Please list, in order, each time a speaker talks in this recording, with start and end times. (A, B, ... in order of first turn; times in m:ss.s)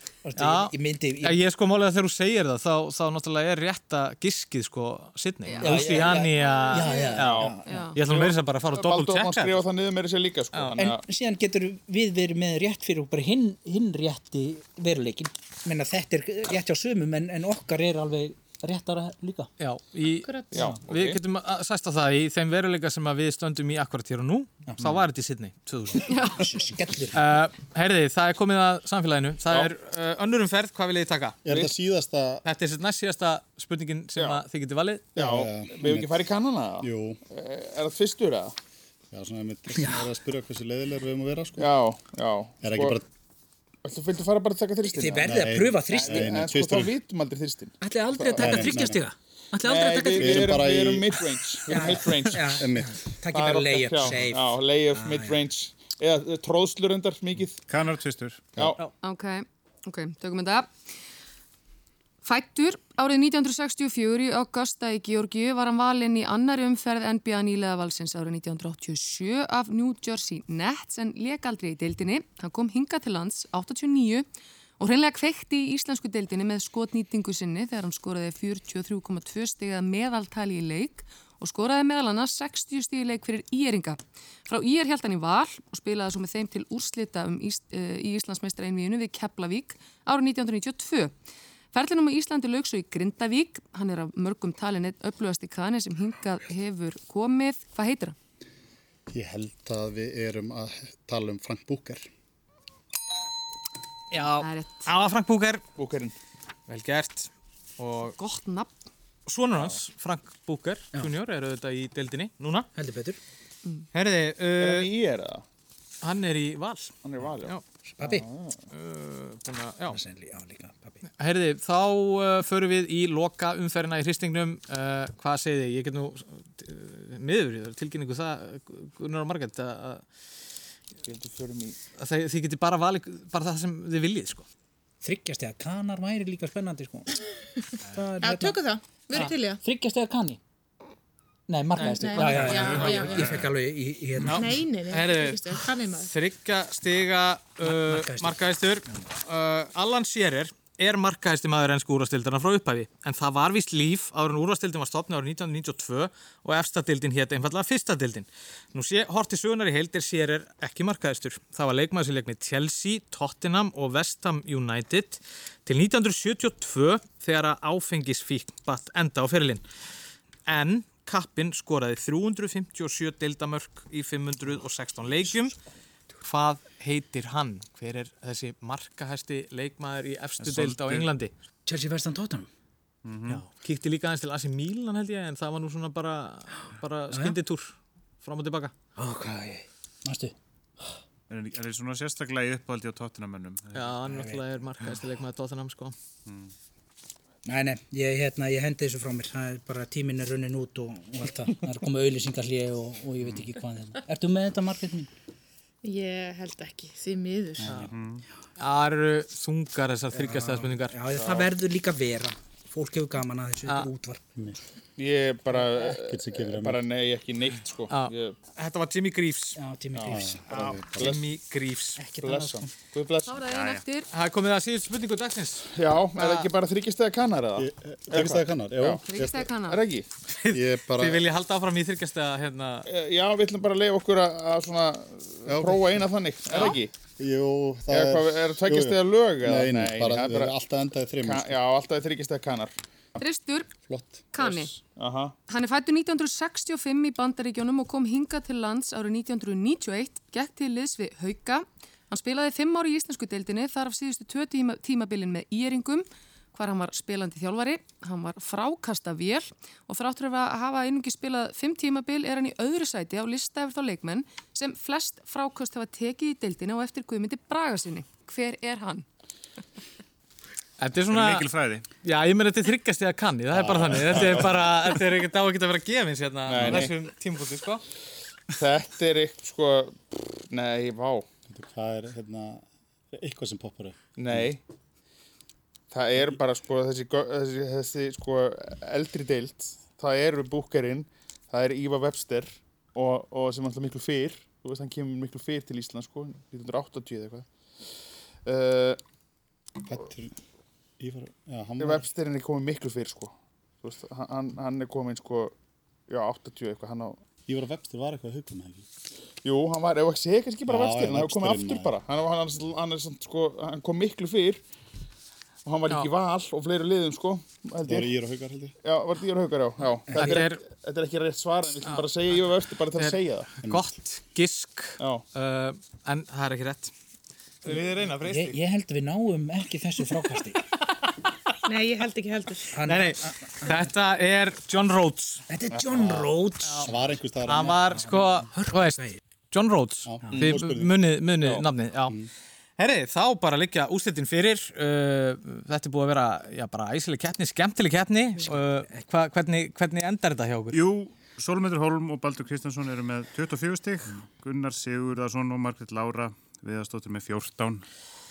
0:00.2-0:01.4 A
0:00.4-0:09.6 B
0:05.4-0:08.0 C
0:05.6-0:07.8 A
0:07.2-0:11.0 D
0:10.5-0:10.8 B
0:10.8-0:19.5 A
0:19.6-0:26.2 B
0:20.2-0:20.5 E
0:20.5-0:21.2 D
0:26.0-0:26.5 C
0:26.4-0:27.3 A
0:27.1-0:31.4 B
0:31.4-0:32.4 F
0:32.4-0:35.1 B
0:35.1-0:38.5 D
0:35.2-0:36.2 F
0:36.8-0:37.2 F
0:39.1-0:41.7 F
0:39.7-0:40.0 A
0:41.6-0:43.0 D
0:42.6-0:43.0 F
0:43.8-0:48.8 D
0:44.8-0:46.6 A
0:45.2-0:46.9 F
0:47.8-0:50.7 A
0:48.4-0:49.0 F
0:49.6-0:52.6 D
0:50.1-0:53.0 F
0:51.7-0:55.4 A
0:53.3-0:57.6 D
0:57.7-0:58.6 G
0:59.0-1:00.7 C
1:02.2-1:14.2 C
1:14.8-1:31.1 C
1:31.7-1:38.1 C
1:39.1-1:42.1 F
1:44.1-1:45.6 B
1:44.3-1:44.9 C
1:45.8-1:46.1 D
1:46.7-1:48.2 B
1:48.2-1:48.7 C
1:49.2-1:52.7 B
1:52.7-1:53.2 A
1:53.9-1:54.9 B
1:54.6-1:55.4 D
1:56.0-1:57.6 B
1:57.0-1:58.6 D
1:58.0-1:58.3 A
1:58.7-2:00.0 B
1:59.9-2:01.0 A
2:01.2-2:10.0 B
2:11.0-2:11.8 D
2:12.0-2:14.4 B
2:15.0-2:17.2 A
2:17.9-2:18.6 A
2:18.2-2:19.6 E
2:19.1-2:20.4 A
2:21.5-2:24.6 A
2:21.8-2:23.4 B
2:21.8-2:23.4 E
2:22.8-2:23.5 G
2:24.2-2:49.6 B
2:24.3-2:26.1 E
2:27.6-2:29.1 A
2:50.5-2:55.5 B
2:56.2-3:01.3 B
3:00.4-3:01.1 G
3:01.6-3:02.5 A
3:03.0-3:03.4 G
3:03.3-3:08.7 B
3:07.1-3:07.4 A
3:09.0-3:10.3 A
3:11.3-3:14.2 G
3:13.7-3:15.9 B
3:16.2-3:16.5 G
3:17.4-3:25.1 A
3:23.2-3:23.5 G
3:25.8-3:27.8 E
3:27.6-3:27.9 A
3:27.9-3:28.2 G
3:28.6-3:31.0 B
3:30.1-3:34.2 A
3:31.2-3:31.5 D
3:35.0-3:38.3 D
3:35.8-3:36.8 F
3:37.9-3:39.6 B
3:39.6-3:40.4 A
3:40.0-3:41.2 D
3:40.0-3:41.2 F
3:40.6-3:42.0 B
3:42.0-3:42.7 A
3:42.2-3:43.5 D
3:43.2-3:44.1 C
3:44.1-3:46.5 B
3:45.7-3:49.0 D
3:47.6-3:49.5 F
3:49.0-3:49.8 C
3:49.7-3:50.0 D
3:50.3-3:52.9 B
3:50.5-3:51.2 F
3:52.9-3:56.9 D
3:55.5-3:56.1 F
3:56.5-3:56.8 C
3:57.2-4:01.6 F
3:57.9-4:00.5 D
4:01.2-4:02.7 D
4:03.2-4:03.7 C
4:03.9-4:04.3 F
4:04.3-4:04.8 C
4:04.4-4:05.3 D
4:05.5-4:29.0 C
4:30.8-4:37.8 B
4:31.0-4:31.8 G
4:33.9-4:34.5 D
4:36.5-4:36.9 D
4:36.5-4:36.9 F
4:38.6-4:41.2 D
4:41.5-4:44.5 F
4:44.2-4:44.6 D
4:45.9-4:57.4 D
4:58.4-4:59.0 D
4:59.8-5:00.3 F
5:01.0-5:02.0 F
5:01.8-5:05.5 D
5:06.1-5:07.2 D
5:07.5-5:08.9 F
5:09.4-5:14.6 D
5:10.7-5:11.9 F
5:15.6-5:18.1 D
5:17.8-5:18.7 F
5:18.8-5:23.5 D
5:20.1-5:20.4 A
5:20.2-5:20.6 B
5:22.9-5:26.9 B
5:27.6-5:28.6 B
5:28.2-5:30.6 A
5:31.6-5:32.7 E
5:32.7-5:33.9 A
5:32.8-5:35.4 B
5:35.5-5:37.2 A
5:36.6-5:36.9 B
5:36.8-5:38.1 F
5:37.4-5:42.2 B
5:38.0-5:39.2 A
5:40.0-5:40.9 F
5:40.2-5:40.5 A
5:42.8-5:50.8 B
5:48.4-5:49.0 A
5:50.7-5:57.8 G